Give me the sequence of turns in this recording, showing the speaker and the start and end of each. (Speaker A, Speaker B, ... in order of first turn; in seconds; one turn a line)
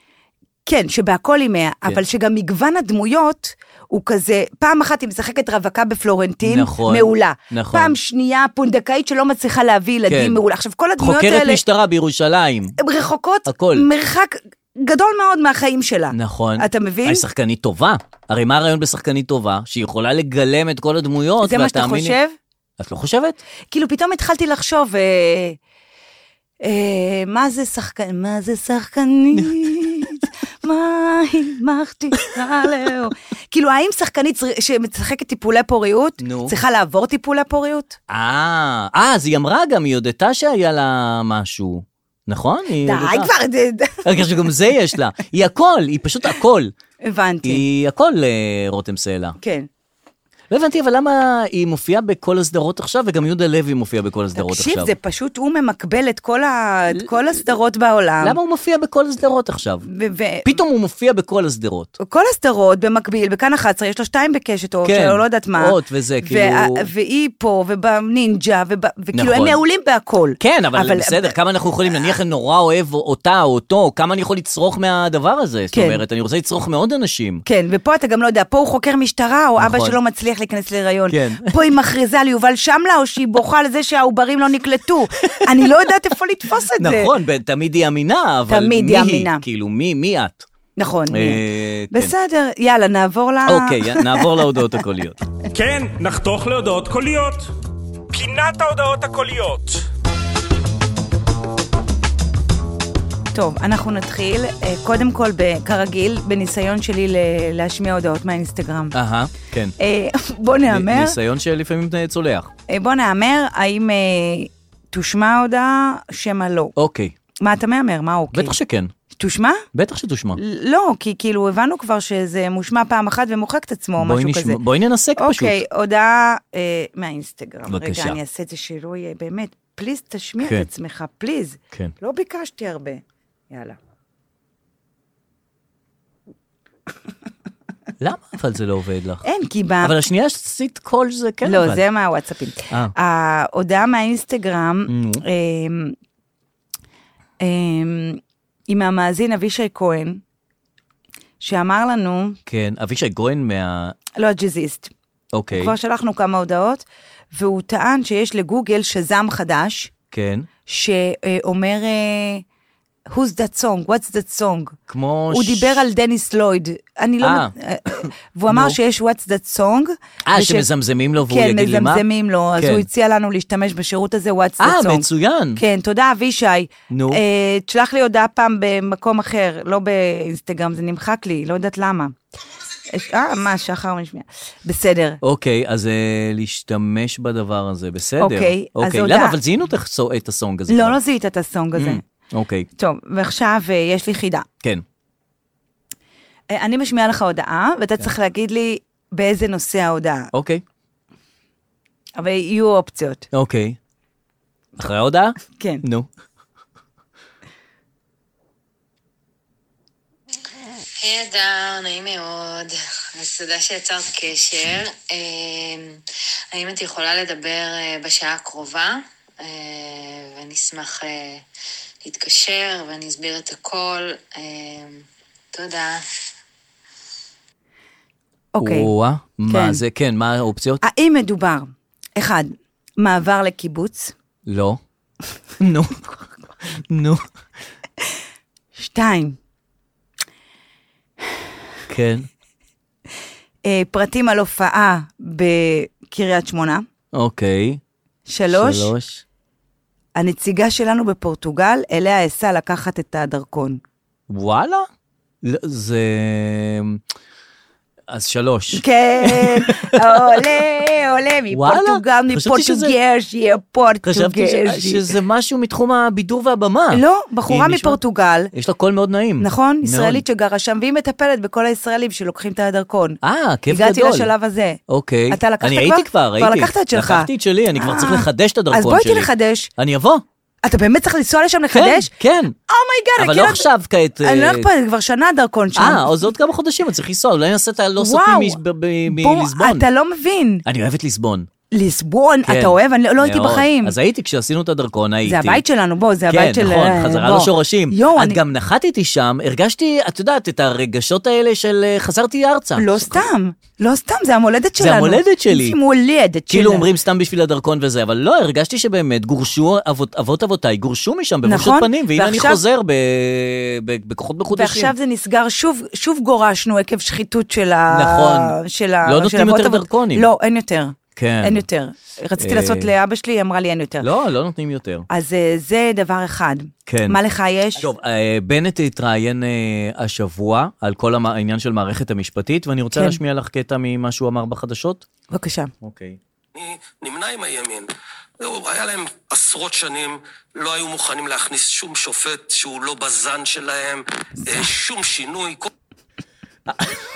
Speaker A: 0.7-11.6
Speaker B: 6.4-8.0
Speaker B: 10.1-10.4
Speaker B: 11.0-12.8
Speaker A: 12.8-17.2
Speaker B: 13.5-13.9
Speaker B: 16.1-22.1
Speaker A: 21.4-22.3
Speaker B: 22.8-23.4
Speaker A: 23.7-25.6
Speaker A: 26.6-38.0
Speaker B: 29.3-30.0
Speaker B: 36.2-36.5
Speaker B: 38.1-43.3
Speaker A: 42.8-44.0
Speaker B: 44.0-46.7
Speaker A: 47.0-47.6
Speaker B: 47.4-49.4
Speaker A: 49.4-49.7
Speaker B: 50.5-54.9
Speaker A: 54.4-58.4
Speaker B: 58.2-59.8
Speaker A: 59.9-60.6
Speaker B: 60.4-61.9
Speaker A: 62.0-71.3
Speaker B: 64.8-66.9
Speaker B: 69.1-69.6
Speaker B: 70.4-77.4
Speaker A: 75.7-76.0
Speaker A: 77.4-87.1
Speaker B: 79.6-80.0
Speaker B: 81.1-81.5
Speaker B: 85.2-85.7
Speaker B: 86.8-90.5
Speaker A: 88.5-89.4
Speaker A: 90.8-94.3
Speaker B: 91.1-92.1
Speaker B: 93.5-95.2
Speaker C: 95.5-97.5
Speaker C: 98.1-99.9
Speaker A: 103.3-108.9
Speaker B: 108.9-109.7
Speaker A: 109.8-111.2
Speaker B: 110.7-112.5
Speaker A: 112.7-116.7
Speaker B: 116.8-117.1
Speaker A: 117.4-118.5
Speaker B: 118.3-118.9
Speaker A: 119.2-119.6
Speaker B: 119.7-120.4
Speaker A: 120.3-124.6
Speaker B: 124.0-125.6
Speaker A: 125.2-133.8
Speaker B: 127.7-128.2
Speaker B: 130.4-130.7
Speaker B: 138.0-139.2
Speaker A: 139.2-140.0
Speaker B: 139.8-141.8
Speaker A: 141.4-145.9
Speaker B: 144.9-145.2
Speaker A: 147.4-150.2
Speaker A: 151.4-152.4
Speaker B: 152.5-154.0
Speaker A: 154.2-154.9
Speaker B: 155.3-155.7
Speaker A: 155.5-159.9
Speaker B: 160.1-160.5
Speaker A: 160.7-162.4
Speaker A: 163.1-164.8
Speaker B: 164.9-165.8
Speaker A: 165.3-170.7
Speaker B: 167.2-168.8
Speaker B: 170.2-172.0
Speaker A: 171.2-182.1
Speaker B: 172.6-172.9
Speaker B: 174.6-175.6
Speaker B: 176.9-177.2
Speaker A: 182.9-185.2
Speaker B: 185.2-191.0
Speaker A: 188.2-189.4
Speaker A: 190.7-192.0
Speaker B: 191.8-192.7
Speaker A: 192.8-194.4
Speaker A: 196.5-200.3
Speaker B: 200.3-200.6
Speaker A: 202.2-203.2
Speaker B: 203.3-203.8
Speaker B: 204.8-206.1
Speaker A: 205.5-205.8
Speaker D: 211.0-216.0
Speaker D: 216.5-221.4
Speaker D: 222.0-226.0
Speaker A: 228.5-228.9
Speaker B: 228.6-230.8
Speaker A: 229.5-229.8
Speaker A: 230.8-234.1
Speaker B: 234.4-234.8
Speaker B: 235.6-236.0
Speaker B: 236.6-237.2
Speaker A: 238.8-239.4
Speaker B: 241.9-242.3
Speaker A: 243.6-246.8
Speaker B: 247.1-247.8
Speaker A: 248.3-248.9
Speaker B: 248.5-249.2
Speaker A: 250.2-253.8
Speaker B: 254.3-254.9
Speaker B: 255.4-257.0
Speaker B: 258.1-260.5
Speaker A: 258.7-265.1
Speaker B: 261.5-262.9
Speaker B: 264.0-268.0
Speaker A: 266.9-268.5
Speaker B: 268.5-270.2
Speaker A: 269.4-274.8
Speaker B: 273.2-274.3
Speaker B: 274.9-280.2
Speaker A: 275.3-279.7
Speaker A: 280.6-282.1
Speaker B: 281.7-282.5
Speaker A: 282.7-283.7
Speaker B: 283.2-284.7
Speaker A: 284.2-286.3
Speaker B: 285.8-289.9
Speaker A: 288.0-290.6
Speaker B: 290.6-291.5
Speaker A: 291.7-293.9
Speaker B: 292.4-295.6
Speaker A: 295.2-298.4
Speaker B: 296.3-303.3
Speaker A: 302.8-306.9
Speaker B: 304.8-305.8
Speaker B: 306.5-314.9
Speaker A: 311.4-312.6
Speaker A: 314.5-324.1
Speaker B: 317.9-320.3
Speaker B: 321.1-321.6
Speaker B: 322.4-322.9
Speaker B: 324.0-325.1
Speaker A: 325.1-327.9
Speaker B: 326.9-327.2
Speaker B: 327.8-335.0
Speaker A: 335.3-335.7
Speaker B: 335.8-336.2
Speaker E: 336.5-337.9
Speaker E: 338.4-345.7
Speaker B: 346.7-347.0